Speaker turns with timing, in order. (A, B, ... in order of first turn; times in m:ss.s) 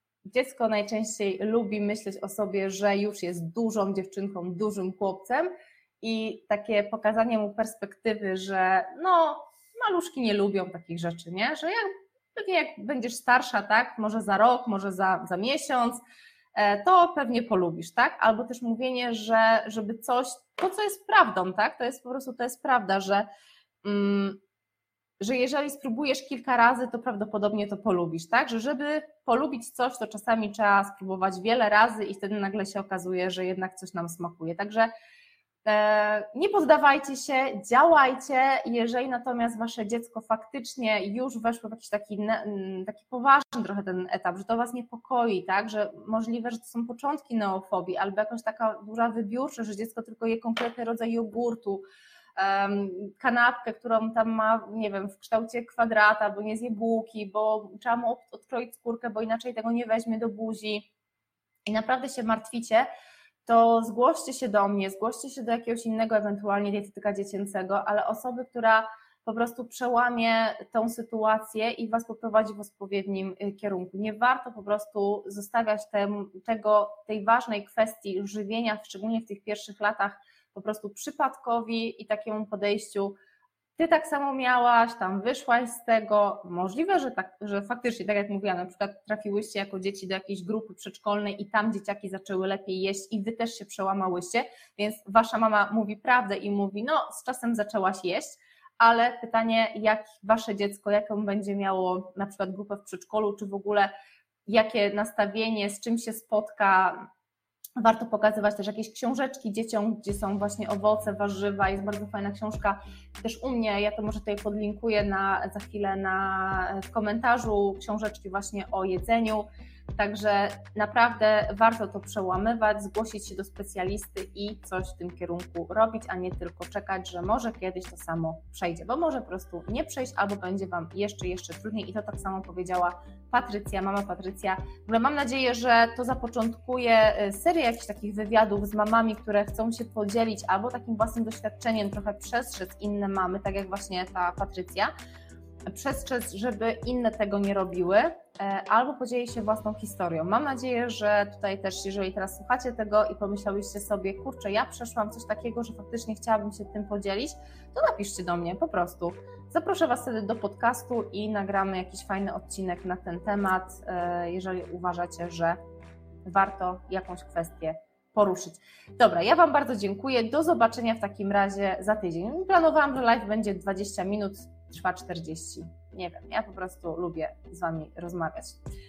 0:00.3-0:05.5 A
0:06.0-0:16.0 A
0:16.6-0:23.3 A
0:23.8-0:24.4 A
0:25.2-0:34.9 A
0:35.7-0:51.8 A
0:52.4-1:00.9 A
1:01.7-1:02.9 A
1:03.5-1:23.2 A
1:23.8-1:43.9 A
1:44.5-1:47.0 A
1:47.8-2:24.9 A
2:25.7-2:45.6 A
2:46.2-2:58.6 A